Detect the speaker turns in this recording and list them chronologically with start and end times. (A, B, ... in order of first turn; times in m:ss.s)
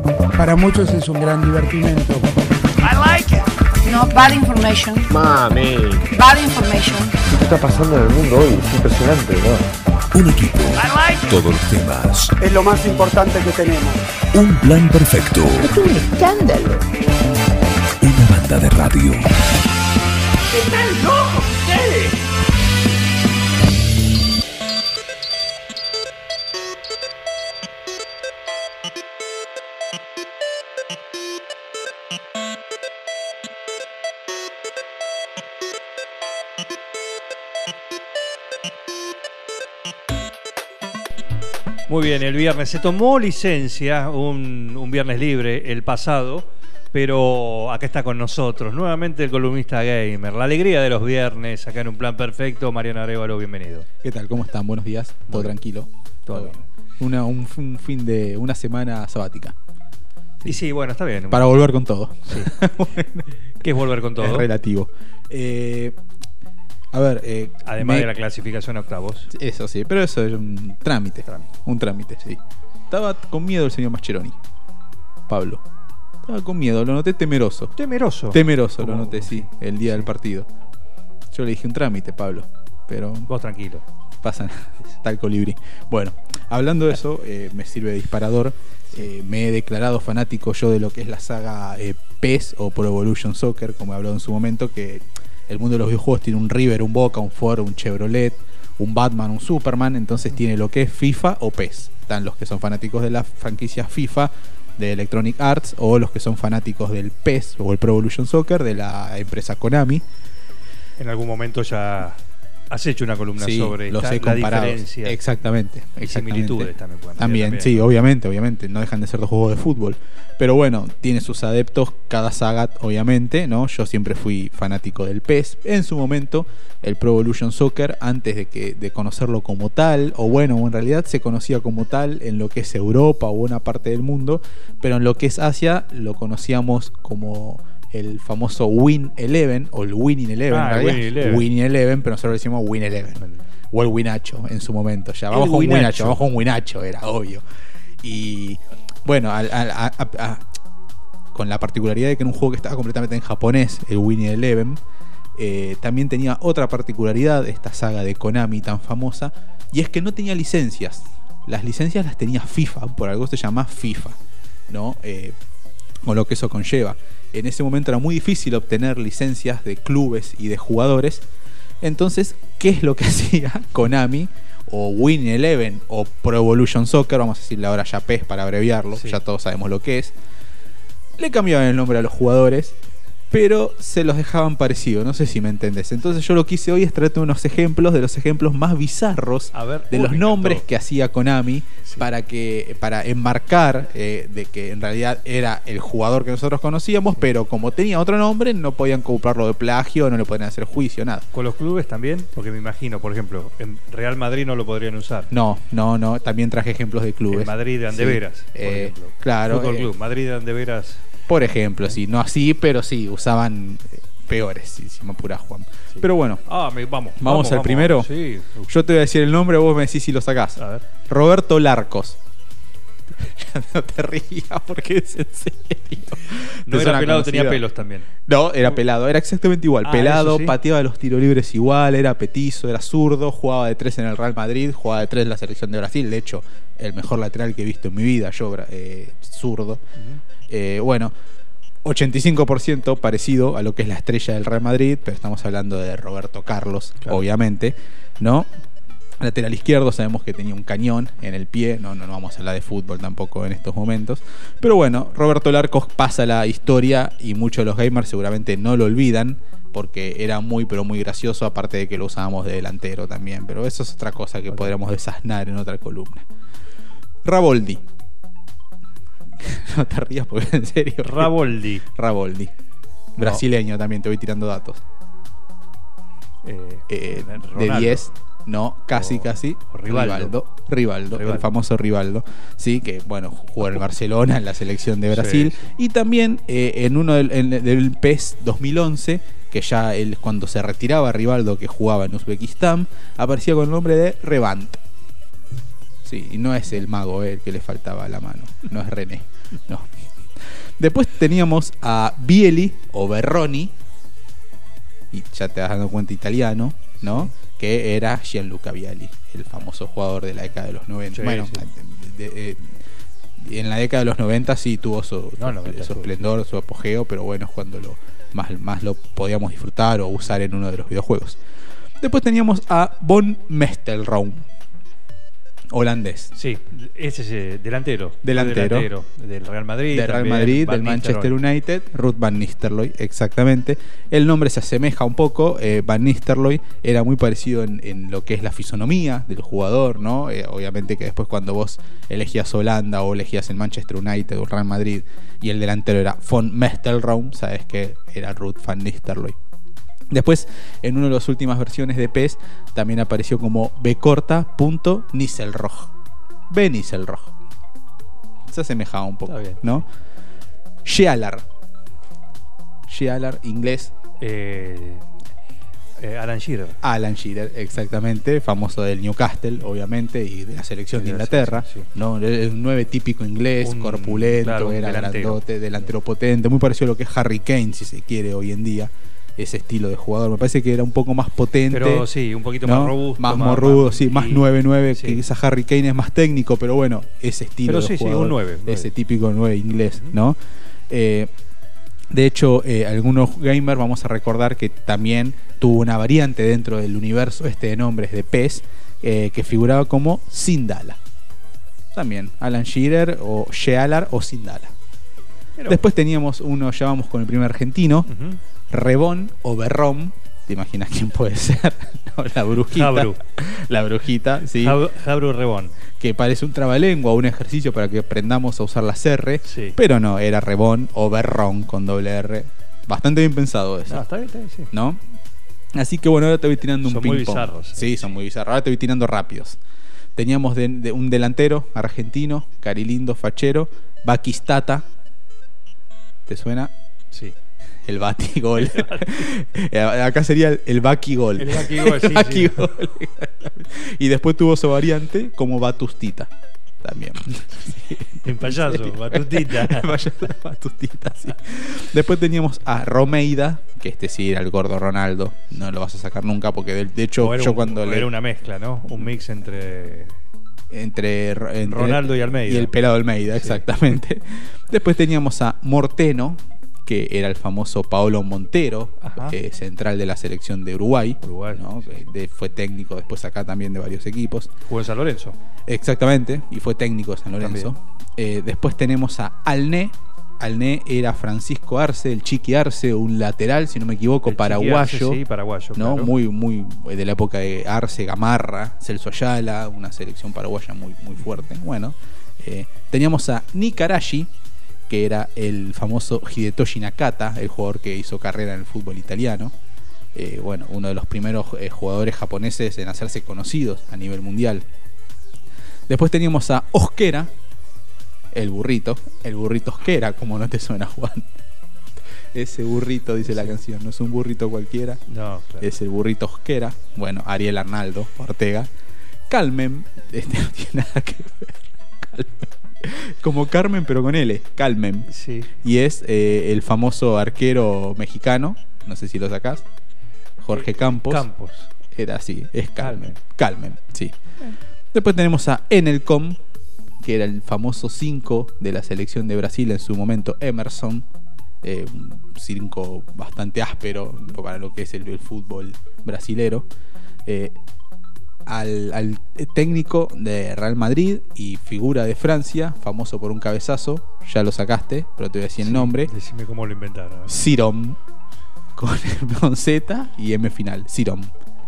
0:00.4-0:02.3 A
0:02.8-0:03.5 B
0:03.8-0:05.1 C
0:06.1-0:07.1 C
0:07.3-0:09.7 D
0:10.1-0:12.4 E
0:12.4-0:14.0 B
0:14.3-0:15.8 E
0:15.6-0:16.8 D
0:18.0-0:19.3 E
0:21.0-0:21.5 A
0:41.9-0:53.9 F
0:54.0-0:59.5 G
0:55.3-0:55.6 F
0:56.2-0:56.6 F
1:00.4-1:01.6 F
1:01.3-1:03.3 G
1:02.3-1:02.6 F
1:03.6-1:04.5 F
1:04.2-1:06.0 G
1:06.9-1:08.1 G
1:07.6-1:09.3 F
1:09.3-1:12.4 G
1:11.2-1:11.5 F
1:12.9-1:14.4 G
1:15.3-1:15.6 G
1:16.2-1:17.7 G
1:17.8-1:20.1 F
1:18.3-1:20.5 G
1:21.3-1:23.3 G
1:23.3-1:23.8 F
1:24.2-1:50.0 G
1:51.0-1:52.2 F
1:52.7-1:55.2 F
1:53.4-2:27.4 G
1:56.0-1:57.9 F
2:20.5-2:21.5 F
2:23.2-2:23.4 F
2:25.3-2:26.2 F
2:28.0-2:30.4 G
2:31.3-2:34.8 G
2:35.4-2:44.2 G
2:44.7-2:45.4 G
2:46.0-2:51.2 G
2:51.8-3:00.1 G
2:58.9-2:59.2 F
3:01.2-3:02.8 G
3:03.3-3:21.3 G
3:09.5-3:10.6 F
3:21.3-3:25.3 F
3:25.3-3:29.9 G
3:27.3-3:31.0 F
3:31.3-3:36.4 G
3:35.9-3:38.7 F
3:37.2-3:38.1 G
3:38.7-3:42.2 G
3:40.6-3:40.8 F
3:43.1-3:47.6 G
3:46.6-3:48.1 F
3:48.3-3:59.8 G
3:49.8-3:50.6 F
4:00.0-4:00.2 F
4:00.5-4:01.1 G
4:01.8-4:08.5 G
4:09.2-4:26.2 G
4:27.2-4:27.8 G
4:29.4-4:31.3 G
4:31.0-4:31.8 F
4:31.8-4:32.5 G
4:33.2-4:34.8 G
4:33.2-4:33.4 F
4:36.4-4:38.0 F
4:36.9-4:54.8 G
4:38.9-4:40.4 F
4:41.1-4:41.5 F
4:45.1-4:45.7 F
4:56.0-4:59.9 G
5:00.8-5:03.7 G
5:05.1-5:12.7 G
5:07.0-5:07.3 F
5:11.1-5:11.6 F
5:13.4-5:21.4 G
5:15.4-5:16.2 F
5:22.0-5:24.4 G
5:25.7-5:26.3 G
5:26.3-5:31.4 F
5:28.2-5:28.9 G
5:29.9-5:49.4 G
5:50.1-5:55.9 G
5:56.5-5:57.3 G
5:58.5-5:59.8 G
5:59.3-5:59.8 F
6:00.8-6:01.4 G
6:02.9-6:03.9 G
6:04.2-6:05.0 F
6:06.0-6:06.8 F
6:06.8-6:22.1 G
6:10.9-6:11.9 F
6:13.6-6:15.9 F
6:21.7-6:25.2 F
6:22.6-6:30.4 G
6:27.6-6:28.9 F
6:30.9-6:31.3 G
6:32.1-6:41.0 G
6:41.9-6:44.7 G
6:45.6-6:45.8 F
6:45.7-6:48.1 G
6:48.1-6:48.4 F
6:48.7-6:54.8 G
6:52.7-6:53.2 F
6:54.6-6:55.8 F
6:56.0-7:04.0 G
6:59.4-6:59.8 F
7:03.9-7:04.7 F
7:04.7-7:05.0 G
7:05.7-7:09.6 G
7:06.8-7:08.2 F
7:10.2-7:14.8 G
7:16.3-7:16.7 G
7:17.9-7:26.3 G
7:18.6-7:19.3 F
7:21.4-7:22.7 F
7:26.8-7:38.1 G
7:28.2-7:30.0 F
7:37.2-7:40.1 F
7:40.7-7:54.5 G
7:41.6-7:42.7 F
7:43.3-7:43.6 F
7:49.0-7:49.4 F
7:51.2-7:52.1 F
7:54.6-7:55.4 F
7:55.7-8:05.2 G
7:57.4-7:57.7 F
8:04.2-8:06.1 F
8:05.8-8:14.3 G
8:14.9-8:19.5 G
8:20.1-8:24.6 G
8:25.9-8:27.3 G
8:28.3-8:31.2 G
8:32.3-8:35.0 G
8:33.3-8:33.6 F
8:35.1-8:35.7 F
8:35.6-8:38.7 G
8:39.3-8:45.1 G
8:45.1-8:45.5 F
8:45.6-8:49.6 G
8:50.4-8:51.3 G
8:50.5-8:51.7 F
8:51.9-8:54.1 G
8:52.8-8:53.2 F
8:54.9-8:56.4 G
8:57.0-9:01.0 G
9:01.6-9:06.6 G
9:07.2-9:07.5 G
9:08.4-9:16.1 G
9:15.6-9:17.4 F
9:17.3-9:18.0 G
9:18.8-9:21.3 G